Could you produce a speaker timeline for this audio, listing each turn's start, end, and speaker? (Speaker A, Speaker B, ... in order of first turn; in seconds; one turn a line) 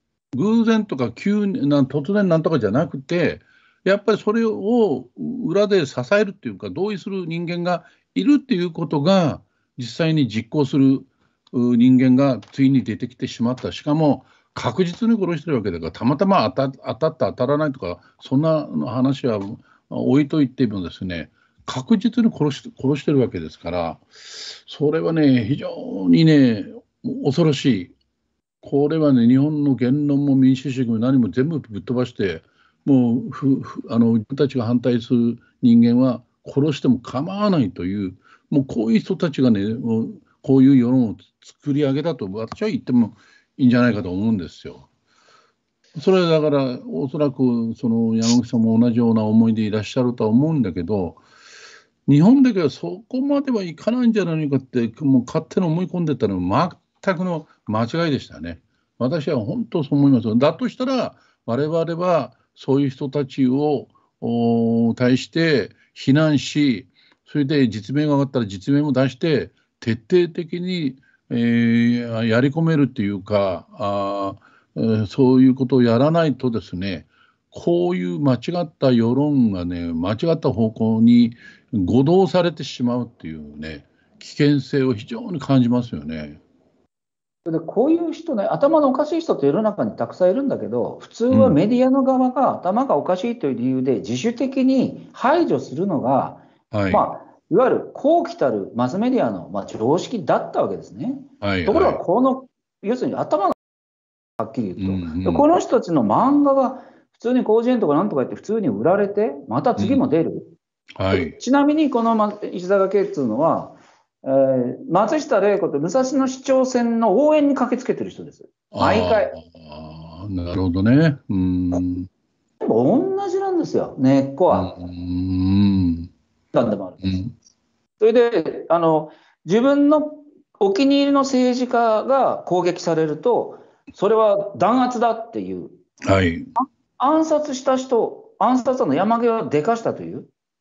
Speaker A: 0.3-27.9
Speaker A: 28.6-44.9
Speaker A: 46.0-51.2
Speaker A: 52.0-86.4
Speaker B: 87.4-103.6
Speaker A: 91.3-91.6
Speaker A: 96.7-97.1
Speaker A: 101.4-102.0
Speaker B: 104.4-110.5
Speaker A: 104.8-105.5
Speaker A: 109.8-110.0
Speaker A: 111.0-111.4
Speaker B: 111.1-119.3
Speaker A: 118.7-122.1
Speaker B: 122.6-124.7
Speaker A: 124.5-126.1
Speaker B: 126.5-127.2
Speaker A: 127.0-127.3
Speaker B: 128.0-135.8
Speaker A: 136.1-136.5
Speaker B: 136.6-140.3